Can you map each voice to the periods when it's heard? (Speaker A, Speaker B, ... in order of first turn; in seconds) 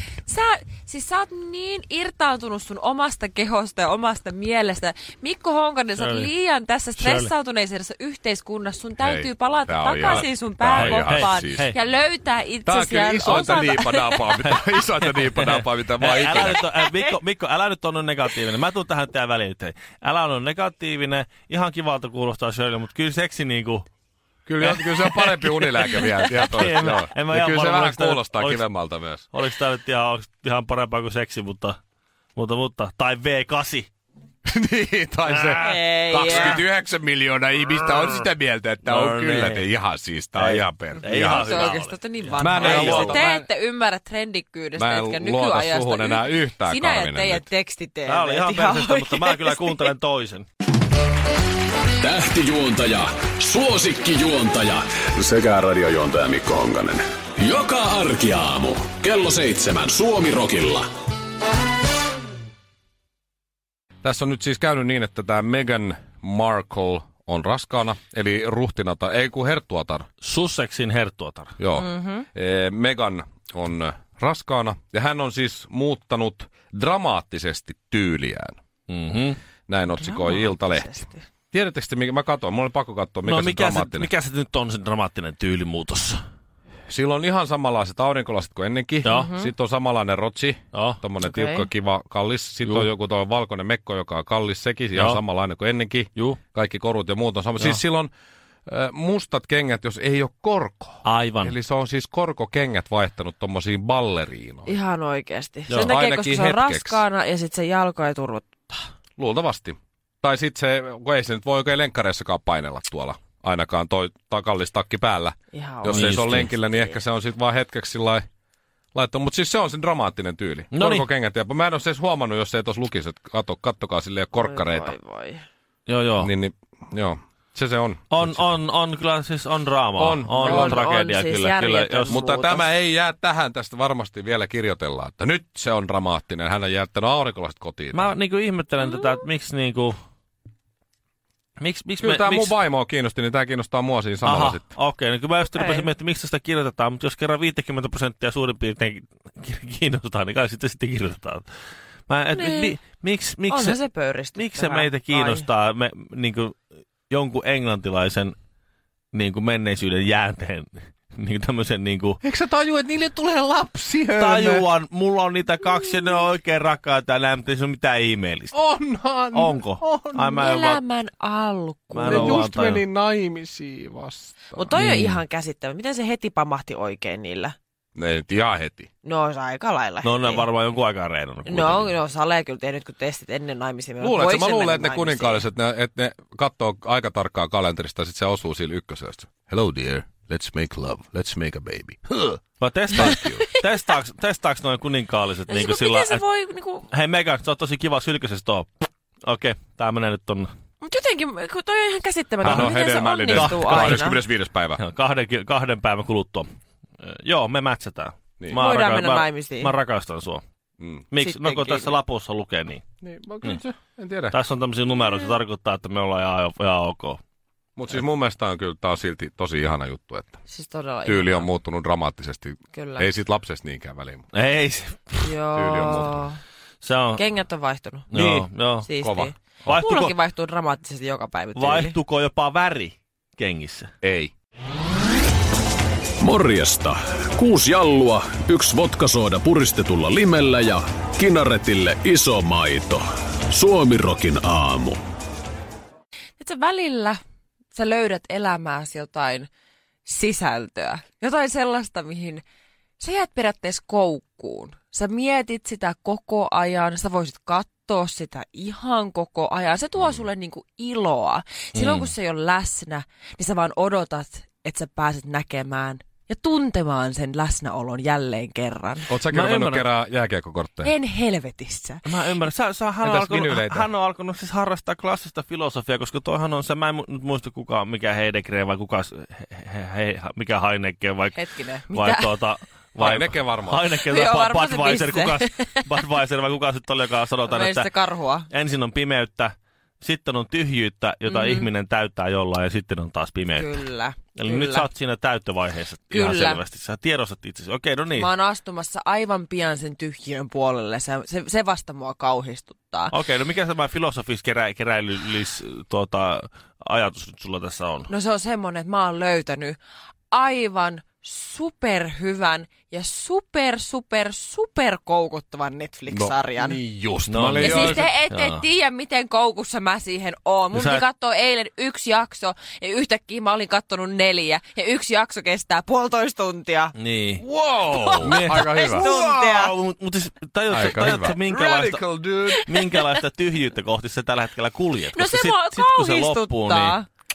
Speaker A: 0.3-14.4, 16.3-17.1, 35.6-36.6, 41.0-49.9, 71.8-72.3, 79.9-81.2, 89.0-89.5, 91.2-91.7, 104.7-108.9, 115.5-117.0, 124.3-125.4, 130.4-132.7, 145.6-145.9, 152.3-152.8, 153.5-155.5, 170.2-172.5, 174.6-177.6, 179.0-180.4, 181.5-185.4, 195.5-196.9, 200.8-204.2, 208.5-209.8, 211.2-211.9, 220.5-221.5, 222.7-223.1, 225.2-226.4, 227.2-228.1, 228.8-232.0, 246.4-247.2, 247.7-249.5, 250.1-252.4, 253.0-269.1, 270.8-272.0, 281.3-282.4, 284.0-285.9, 287.5-288.5, 291.3-291.7, 293.5-294.9, 296.1-296.6, 298.1-303.1, 308.1-309.8, 310.3-316.8, 317.6-326.9, 327.9-329.7, 332.5-333.1, 335.1-337.1
Speaker B: 6.0-6.3, 7.0-7.3, 10.0-11.8, 13.3-13.6, 14.4-23.9, 24.6-28.6, 29.3-31.8, 32.4-33.9, 36.2-36.5, 38.8-39.7, 40.4-43.3, 48.1-50.5, 70.2-71.5, 78.9-79.4, 83.2-86.2, 89.0-89.3, 90.7-91.0, 94.9-95.2, 101.0-101.6, 115.9-116.5, 120.7-121.1, 125.9-126.3, 128.1-132.2, 137.9-140.0, 141.6-142.6, 144.2-151.5, 152.1-153.8, 154.4-156.6, 157.1-158.3, 159.1-162.2, 164.2-168.5, 169.3-170.8, 171.9-172.8, 174.8-175.2, 180.0-181.9, 192.6-196.2, 196.9-198.7, 199.2-200.5, 202.4-202.7, 203.3-204.1, 204.8-206.5, 207.0-210.4, 211.1-212.8, 214.3-217.2, 224.3-225.3, 226.8-227.2, 228.1-228.9, 229.7-230.2, 231.6-233.9, 261.7-262.1, 269.3-269.9, 272.1-281.4, 281.9-287.9, 288.5-298.3, 303.1-308.1, 317.3-318.6, 320.7-321.0, 327.0-327.4, 328.2-332.0, 332.7-337.0
Speaker C: 9.0-11.7, 12.7-16.6, 24.5-29.2, 34.5-41.7, 42.4-43.4, 44.8-47.5, 64.0-70.1, 71.6-78.6, 79.7-80.9, 81.5-84.1, 86.9-98.1, 98.7-104.7, 105.7-107.0, 109.2-118.3, 119.0-124.9, 126.2-128.5, 130.0-130.8, 132.1-138.1, 142.0-144.7, 162.2-164.7, 168.5-170.4, 172.1-174.8, 178.0-178.9, 184.0-192.4, 192.9-193.5, 202.4-204.8, 210.8-211.1, 213.0-214.4, 217.8-220.4, 221.1-224.3, 225.5-226.2, 228.1-229.3, 234.0-234.3, 269.1-270.9, 273.0-273.9, 283.0-283.8, 316.1-318.1, 327.4-329.1, 330.7-332.6
Speaker D: 52.0-60.9, 236.2-245.0